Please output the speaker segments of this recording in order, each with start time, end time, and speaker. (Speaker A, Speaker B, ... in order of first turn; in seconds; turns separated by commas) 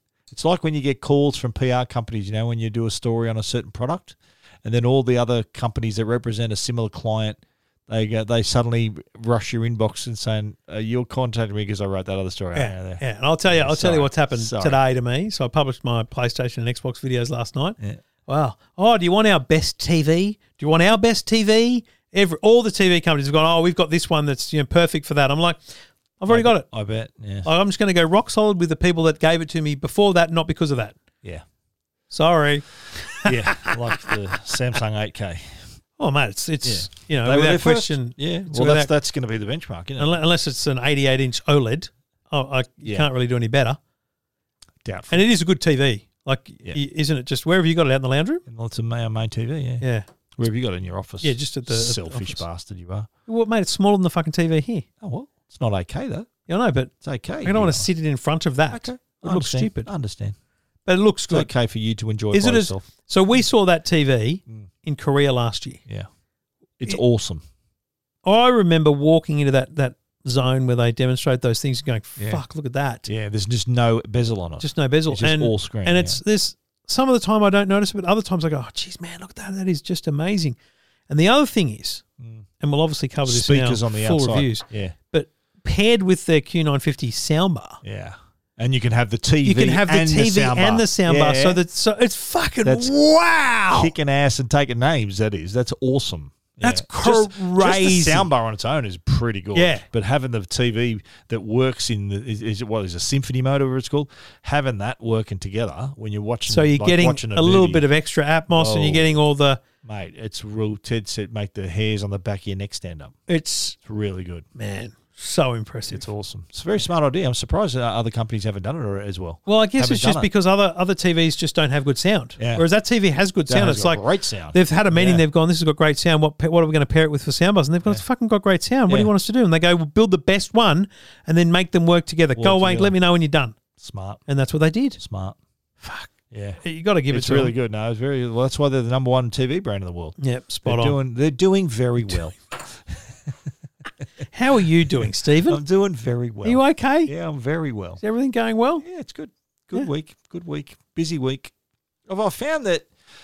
Speaker A: 0.3-14.8, Speaker B: 12.5-25.6, Speaker B: 26.2-26.6, Speaker A: 26.3-27.5, Speaker B: 27.4-31.0, Speaker B: 32.1-34.6, Speaker A: 33.2-35.6, Speaker B: 36.0-38.9, Speaker A: 36.6-40.2, Speaker B: 40.0-43.8, Speaker A: 44.8-45.2, Speaker B: 45.1-48.4, Speaker A: 48.5-49.8, Speaker B: 49.8-50.1, Speaker A: 50.4-53.1, Speaker B: 51.2-52.4, Speaker B: 53.3-54.9, Speaker A: 55.0-56.3, Speaker B: 56.5-56.9, Speaker A: 57.0-57.9, Speaker B: 57.4-59.9, Speaker A: 58.7-60.4, Speaker B: 60.9-61.5, Speaker A: 61.3-62.9, Speaker B: 62.3-65.8, Speaker A: 66.8-67.4, Speaker B: 68.3-73.1, Speaker A: 73.1-76.2, Speaker B: 74.6-80.6, Speaker B: 81.1-82.0, Speaker A: 82.2-82.4, Speaker B: 82.6-87.8, Speaker A: 83.2-84.9, Speaker A: 87.8-91.6, Speaker B: 89.4-93.9, Speaker A: 92.6-92.9, Speaker A: 93.7-107.8, Speaker B: 96.6-98.3, Speaker B: 99.5-99.8, Speaker B: 106.5-109.6, Speaker A: 108.5-109.2, Speaker A: 109.8-113.1, Speaker B: 113.3-113.8, Speaker A: 113.8-114.5, Speaker B: 114.6-116.1, Speaker A: 115.9-120.3, Speaker B: 119.5-124.0, Speaker A: 122.4-122.6, Speaker A: 123.5-125.2, Speaker B: 124.5-133.6, Speaker A: 132.4-132.9, Speaker A: 133.8-134.2, Speaker B: 134.3-135.0, Speaker A: 135.0-135.4, Speaker B: 135.8-136.1, Speaker A: 136.3-143.5, Speaker B: 136.6-137.5, Speaker B: 140.2-140.9, Speaker B: 144.3-145.6, Speaker A: 145.5-148.0, Speaker B: 146.4-147.1, Speaker B: 148.0-148.8, Speaker A: 148.8-151.5, Speaker A: 152.1-152.9